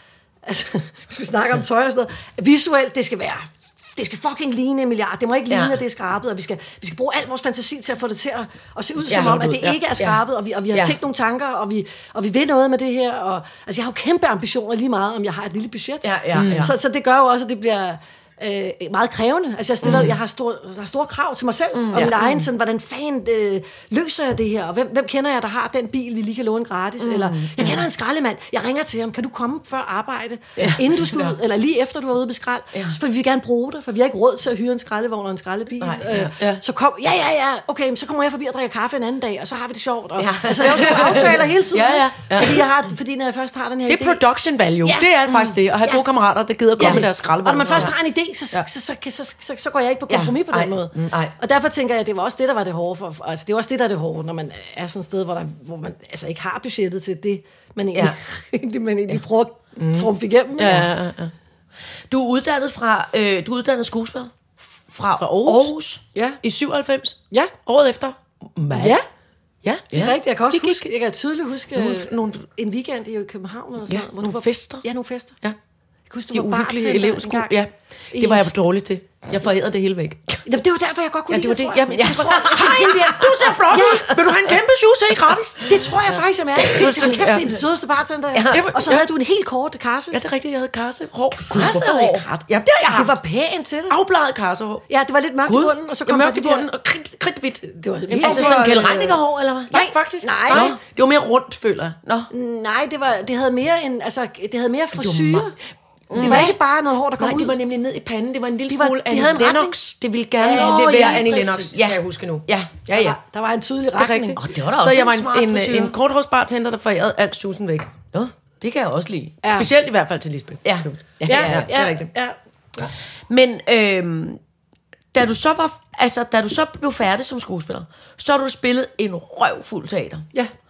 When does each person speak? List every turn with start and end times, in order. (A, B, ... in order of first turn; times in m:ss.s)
0:00.4-0:44.2 A
0:05.5-0:05.8 B
0:09.1-0:10.2 B
0:16.0-0:16.7 B
0:16.3-0:16.7 C
0:19.8-0:20.1 B
0:19.8-0:20.1 C
0:21.7-0:22.4 B
0:27.0-0:27.8 B
0:30.6-0:30.8 C
0:31.1-0:31.3 B
0:35.8-0:36.2 B
0:36.1-0:36.6 C
0:40.2-0:41.4 B
0:40.6-0:42.6 C
0:43.8-0:47.9 C
0:44.8-0:45.1 A
0:45.3-0:45.6 B
0:46.8-1:00.9 A
0:46.8-0:47.0 B
0:50.1-0:51.3 B
0:59.8-1:01.3 C
1:02.1-1:06.0 B
1:05.2-1:05.7 C
1:06.1-1:06.4 A
1:06.4-1:09.0 C
1:08.7-1:09.0 A
1:09.6-1:10.9 C
1:09.9-1:15.4 A
1:11.7-1:12.5 C
1:13.9-1:14.8 C
1:16.1-1:17.6 A
1:16.3-1:20.4 C
1:18.1-1:18.5 A
1:20.4-1:24.3 A
1:21.3-1:26.0 C
1:22.6-1:23.0 B
1:25.6-1:30.2 A
1:26.6-1:27.5 C
1:28.3-1:28.6 B
1:28.5-1:29.0 C
1:30.1-1:33.2 C
1:31.5-1:32.2 A
1:31.5-1:32.2 B
1:32.9-1:34.0 A
1:33.9-1:34.8 C
1:34.9-1:36.7 A
1:35.5-1:39.0 C
1:37.6-1:39.2 A
1:38.2-1:39.7 B
1:39.7-1:40.7 A
1:39.7-1:42.0 C
1:40.5-1:40.8 B
1:42.3-1:45.5 A
1:44.9-1:45.4 B
1:46.1-1:46.5 B
1:46.1-1:46.6 C
1:46.1-1:47.6 A
1:47.2-1:53.2 C
1:48.7-1:49.8 A
1:50.4-1:51.7 A
1:50.4-1:52.8 B
1:52.9-1:54.4 A
1:54.0-1:58.0 C
1:54.4-1:55.9 B
1:58.1-1:59.4 B
1:59.4-1:59.7 A
1:59.5-2:02.1 C
2:00.6-2:01.8 B
2:01.3-2:02.3 A
2:03.3-2:04.4 B
2:05.1-2:10.3 B